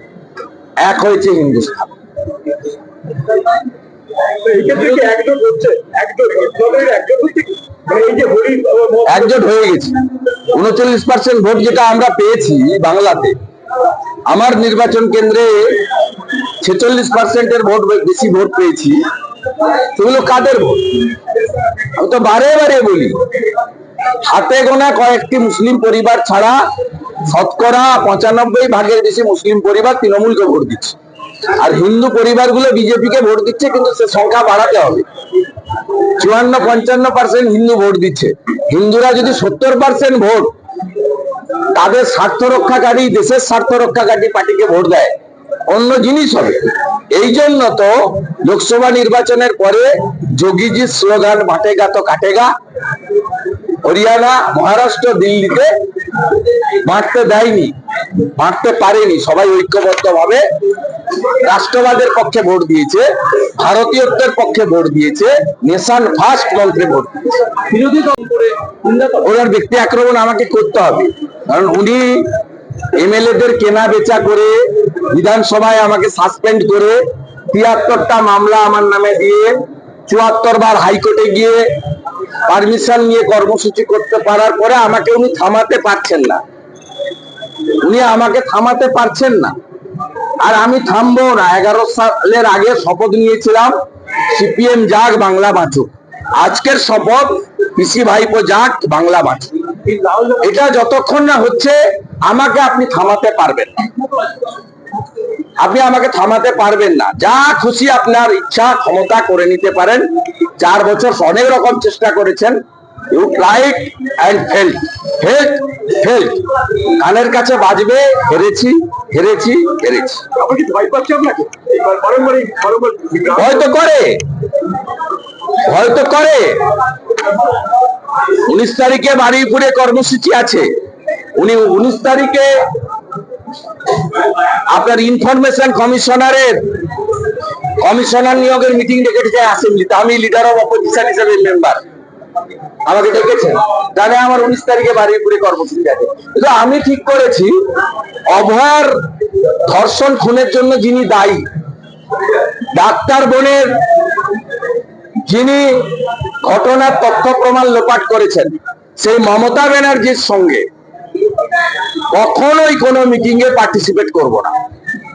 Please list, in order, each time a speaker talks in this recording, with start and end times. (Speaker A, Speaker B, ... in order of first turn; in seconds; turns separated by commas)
Speaker A: 0.8-1.9, Speaker B: 4.3-9.4, Speaker A: 9.1-13.3, Speaker A: 14.3-15.8, Speaker A: 16.6-19.0, Speaker A: 19.6-21.1, Speaker A: 21.9-23.2, Speaker A: 24.2-26.6, Speaker A: 27.2-31.0, Speaker A: 31.5-35.0, Speaker A: 36.2-40.5, Speaker A: 41.7-45.1, Speaker A: 45.7-52.5, Speaker A: 53.8-55.7, Speaker A: 56.8-60.4, Speaker A: 61.2-67.6, Speaker B: 67.7-69.0, Speaker A: 69.1-72.3, Speaker A: 72.9-77.0, Speaker A: 77.5-81.6, Speaker A: 82.5-86.4, Speaker A: 87.8-89.5, Speaker A: 90.4-93.8, Speaker A: 94.3-99.9, Speaker B: 100.0-100.3, Speaker A: 100.4-103.9, Speaker A: 105.6-112.6, Speaker A: 113.1-120.3, Speaker B: 120.3-123.6, Speaker A: 123.3-124.2, Speaker A: 125.6-126.6, Speaker A: 128.3-130.7, Speaker A: 131.3-132.6, Speaker A: 134.7-136.7, Speaker A: 137.8-141.8, Speaker A: 142.8-147.5, Speaker A: 148.3-149.0, Speaker A: 149.7-151.5, Speaker A: 152.7-153.8, Speaker A: 155.2-160.7, Speaker A: 162.1-164.5